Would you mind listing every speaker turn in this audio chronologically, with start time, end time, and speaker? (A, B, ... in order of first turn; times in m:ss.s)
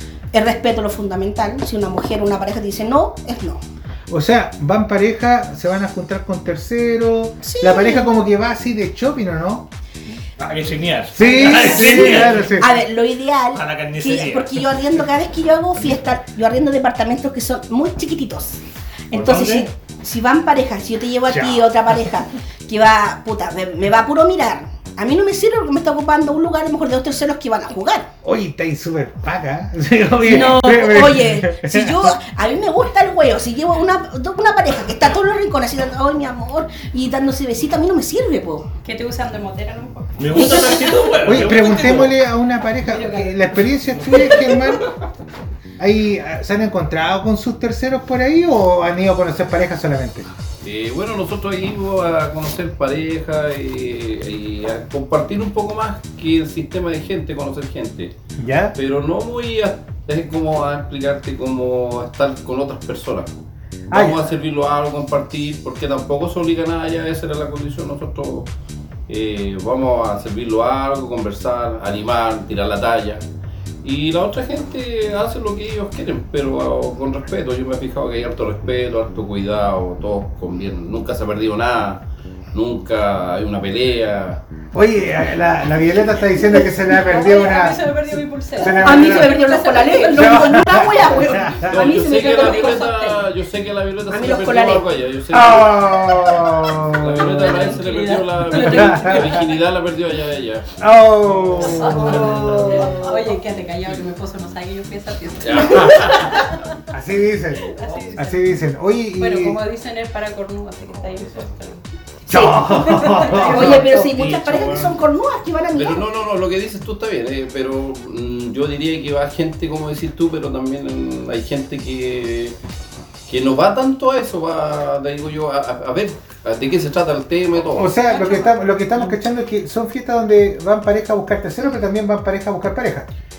0:00.3-0:03.6 A
0:04.1-0:09.7 B
0:07.4-0:08.1 A
0:10.4-0:12.6 C
0:11.1-0:12.8 B
0:11.2-0:18.6 A
0:13.5-0:14.8 C
0:19.1-0:28.1 A
0:19.1-0:19.7 C
0:21.3-0:21.6 C
0:28.2-0:32.1 B
0:30.2-0:38.7 A
0:38.8-0:41.1 D
0:40.2-0:42.2 C
0:40.4-0:40.7 A
0:41.2-0:44.9 B
0:42.9-0:44.6 D
0:45.8-0:50.3 B
0:50.6-0:58.1 E
0:58.4-0:58.7 B
0:58.7-1:03.3 E
1:03.9-1:04.3 B
1:03.9-1:08.5 E
1:09.1-1:13.2 E
1:13.8-1:22.0 E
1:22.5-1:24.4 E
1:24.7-1:28.0 B
1:26.8-1:30.6 D
1:28.6-1:29.4 B
1:28.7-1:32.8 A
1:30.1-1:31.8 B
1:31.6-1:36.3 E
1:31.9-1:33.3 D
1:34.1-1:34.8 A
1:35.3-1:37.6 B
1:36.8-1:40.6 E
1:37.4-1:39.4 D
1:38.5-1:39.4 B
1:40.8-1:43.0 B
1:41.6-1:46.7 D
1:41.8-1:43.1 A
1:45.4-1:46.3 E
1:46.9-1:49.6 B
1:47.6-1:48.4 D
1:49.2-1:51.8 D
1:52.3-1:56.1 A
1:52.3-1:53.7 B
1:52.8-1:54.1 D
1:53.4-1:55.0 C
1:55.7-2:02.6 E
2:03.3-2:07.9 E
2:07.7-2:13.1 B
2:08.0-2:08.5 D